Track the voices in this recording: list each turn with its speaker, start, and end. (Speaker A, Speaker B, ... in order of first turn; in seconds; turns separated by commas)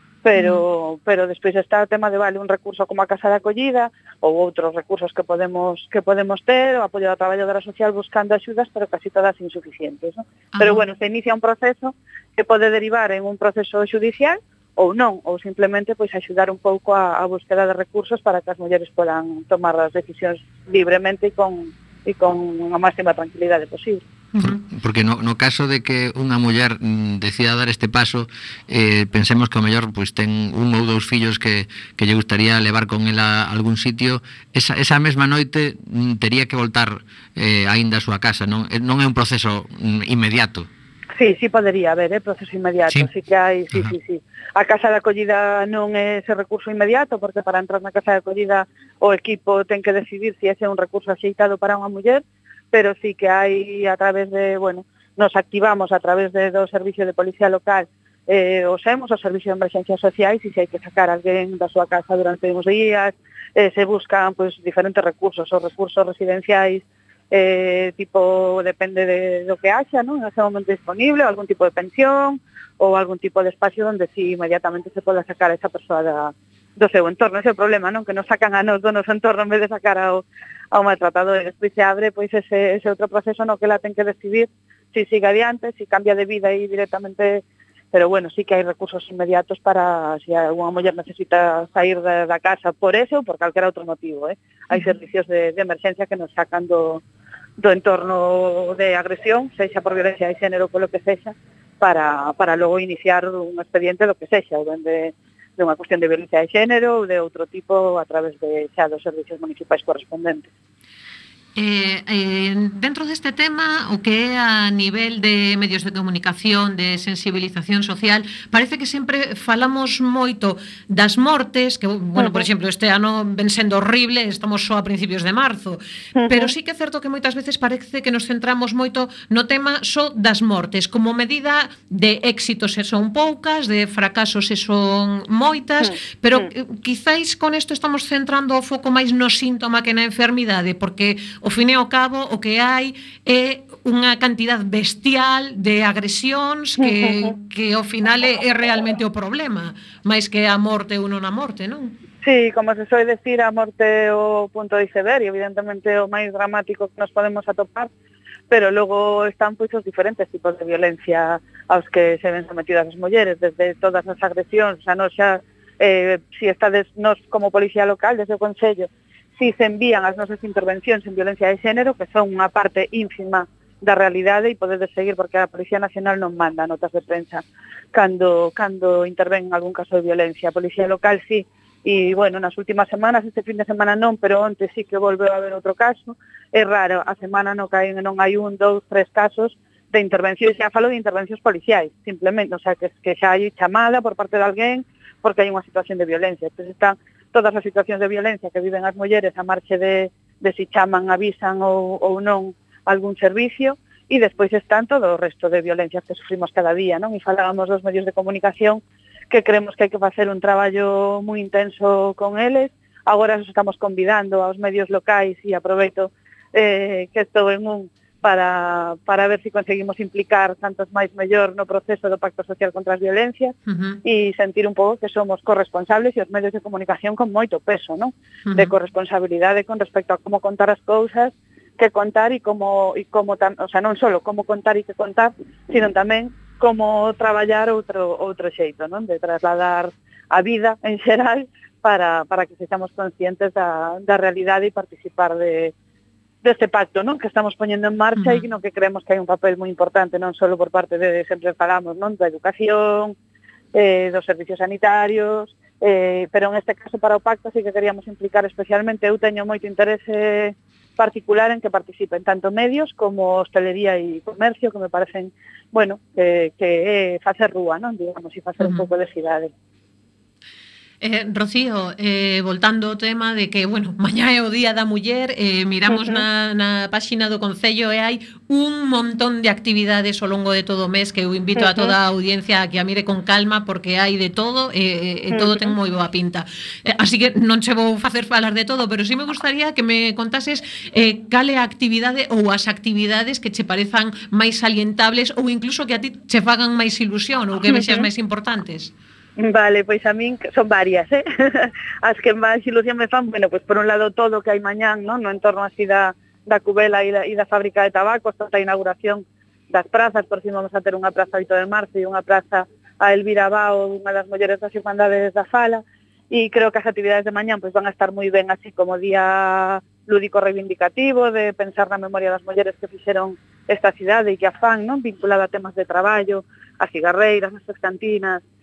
Speaker A: 0.2-24.0, Speaker B: 0.3-0.6, Speaker B: 10.5-10.8, Speaker B: 24.4-24.6, Speaker C: 24.4-40.7, Speaker A: 41.2-97.0, Speaker A: 97.6-110.5, Speaker B: 111.5-151.9, Speaker A: 122.2-122.5, Speaker A: 126.1-126.5, Speaker A: 135.8-136.5, Speaker A: 146.8-147.3, Speaker A: 152.2-157.9, Speaker A: 158.5-245.7, Speaker B: 223.7-224.0, Speaker B: 228.5-228.8, Speaker A: 246.4-253.1, Speaker B: 248.2-248.4, Speaker A: 253.7-269.5, Speaker B: 268.6-268.9, Speaker B: 271.0-298.9, Speaker A: 275.9-276.2, Speaker A: 281.6-281.9, Speaker A: 285.3-285.7, Speaker A: 297.7-298.1, Speaker A: 299.4-328.4